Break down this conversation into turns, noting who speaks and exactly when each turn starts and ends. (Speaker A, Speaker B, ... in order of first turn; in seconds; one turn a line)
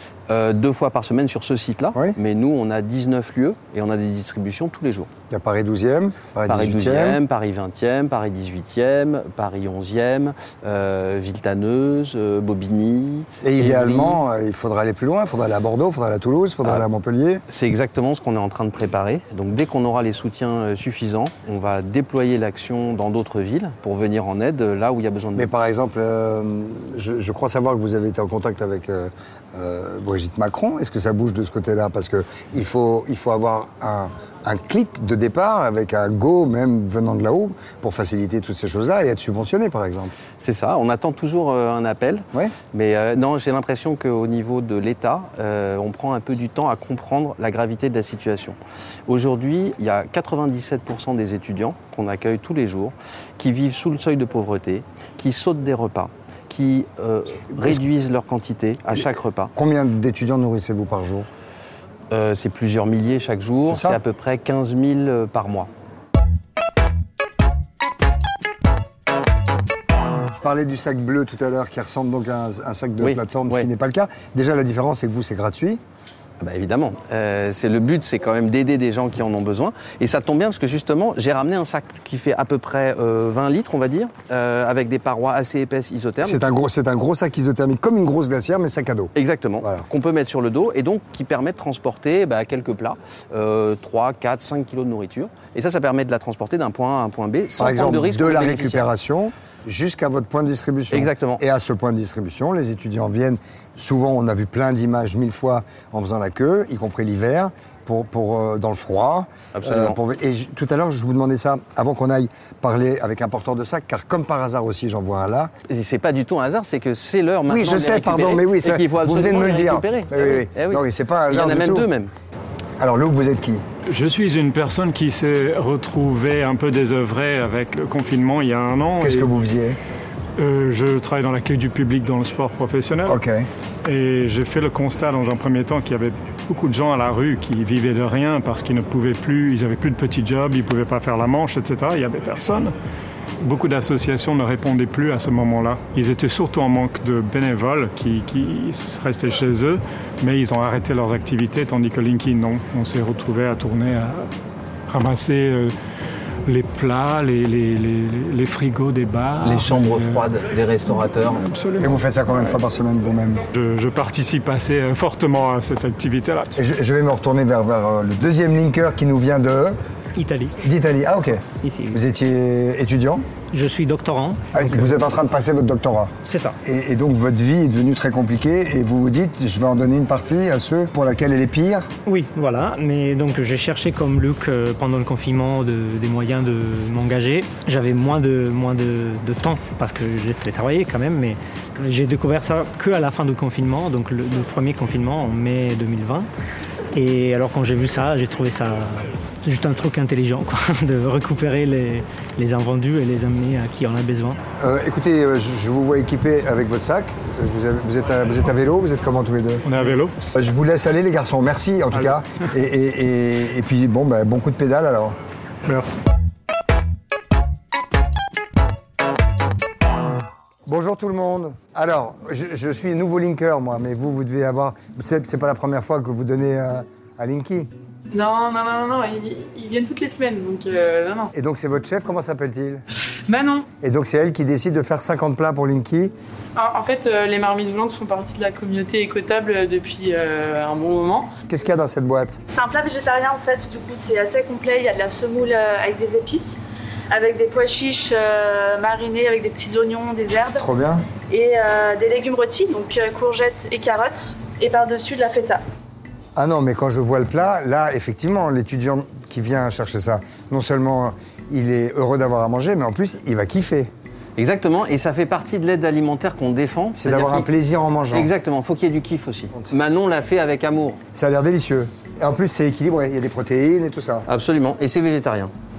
Speaker A: 0.3-5.1
Speaker B: 5.3-7.2
Speaker A: 6.5-14.2
Speaker B: 13.4-17.4
Speaker A: 17.5-25.5
Speaker B: 25.4-40.1
Speaker A: 40.4-59.5
Speaker B: 59.5-61.3
Speaker A: 62.1-65.7
Speaker B: 63.6-64.0
Speaker B: 70.4-75.8
Speaker A: 73.0-73.7
Speaker A: 76.4-86.5
Speaker B: 86.2-89.9
Speaker A: 89.2-98.9
Speaker B: 97.6-115.5
Speaker A: 100.9-101.4
Speaker A: 109.5-110.0
Speaker A: 115.7-122.1
Speaker B: 117.5-121.9
Speaker B: 122.8-123.7
Speaker C: 123.9-129.3
Speaker B: 129.0-129.8
Speaker C: 130.4-133.2
Speaker B: 133.1-133.5
Speaker C: 133.8-142.7
Speaker C: 143.4-154.3
Speaker C: 154.9-155.7
Speaker C: 156.5-160.2
Speaker A: 159.4-161.4
Speaker C: 161.2-162.6
Speaker B: 161.8-163.4
Speaker C: 163.5-166.6
Speaker B: 166.6-169.8
Speaker D: 170.2-170.6
Speaker B: 170.6-173.3
Speaker D: 171.6-172.0
Speaker D: 173.5-175.0
Speaker B: 174.5-181.9
Speaker D: 176.2-176.6
Speaker D: 182.1-196.3
Speaker D: 196.9-204.4
Speaker B: 204.6-215.2
Speaker C: 209.7-210.2
Speaker C: 215.7-216.0
Speaker B: 220.7-227.7
Speaker E: 228.1-231.3
Speaker B: 231.3-232.8
Speaker E: 233.3-233.7
Speaker B: 233.8-236.1
Speaker E: 236.6-241.3
Speaker B: 241.5-242.4
Speaker F: 242.5-246.6
Speaker F: 247.1-250.7
Speaker B: 250.6-251.1
Speaker F: 251.3-255.6
Speaker B: 256.4-263.9
Speaker A: 264.4-267.5
Speaker B: 267.0-268.3
Speaker A: 268.1-271.0
Speaker B: 271.1-274.3
Speaker A: 274.3-275.5